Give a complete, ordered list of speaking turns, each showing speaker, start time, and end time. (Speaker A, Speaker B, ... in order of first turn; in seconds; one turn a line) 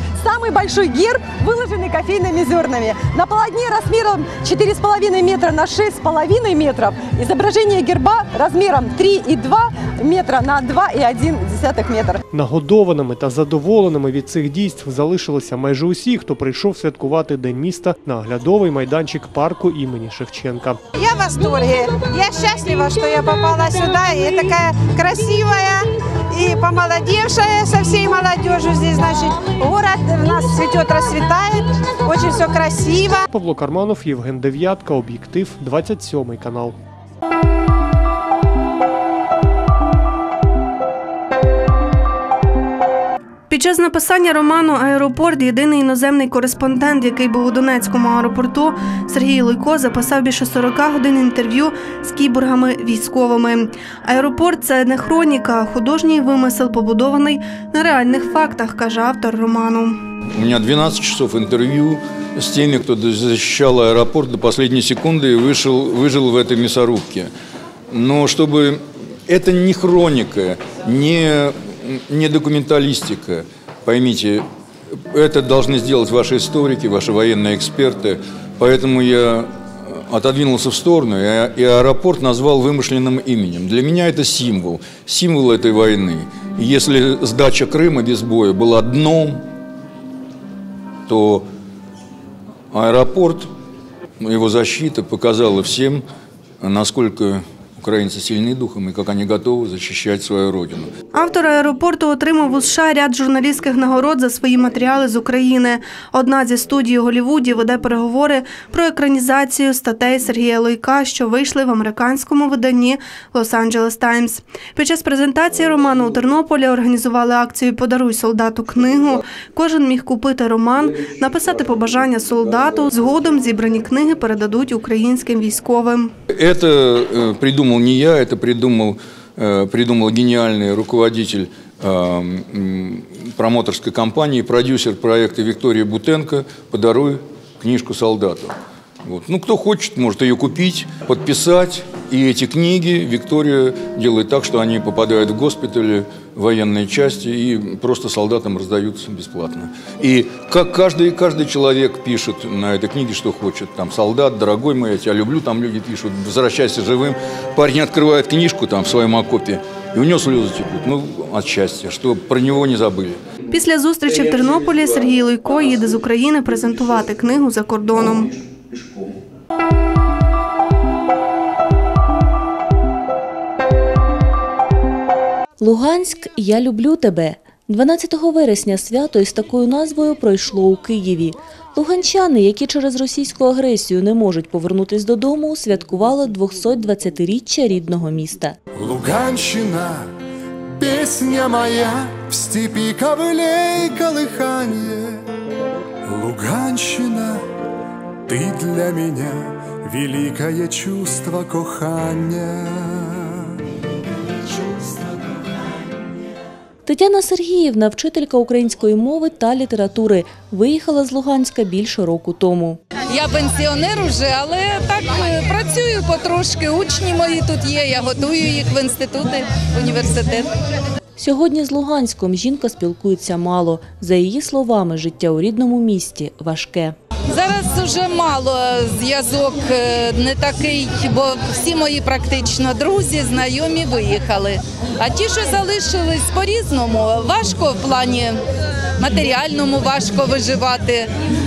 Speaker A: 0.2-12.2
Speaker B: 12.3-20.8
Speaker C: 20.9-33.2
Speaker B: 33.3-36.8
Speaker D: 43.5-60.0
Speaker E: 60.3-67.3
Speaker E: 67.9-74.4
Speaker E: 75.1-89.5
Speaker E: 91.1-91.5
Speaker E: 92.7-93.5
Speaker E: 94.2-96.0
Speaker E: 96.6-100.9
Speaker D: 101.1-126.1
Speaker E: 126.3-163.2
Speaker D: 163.5-168.3
Speaker F: 175.6-188.6
Speaker G: 188.8-190.1
Speaker G: 190.7-195.2
Speaker G: 196.1-197.4
Speaker G: 198.3-203.4
Speaker F: 206.8-212.8
Speaker H: 213.1-220.5
Speaker F: 221.2-226.9
Speaker H: 227.3-238.4
Speaker H: 239.0-241.1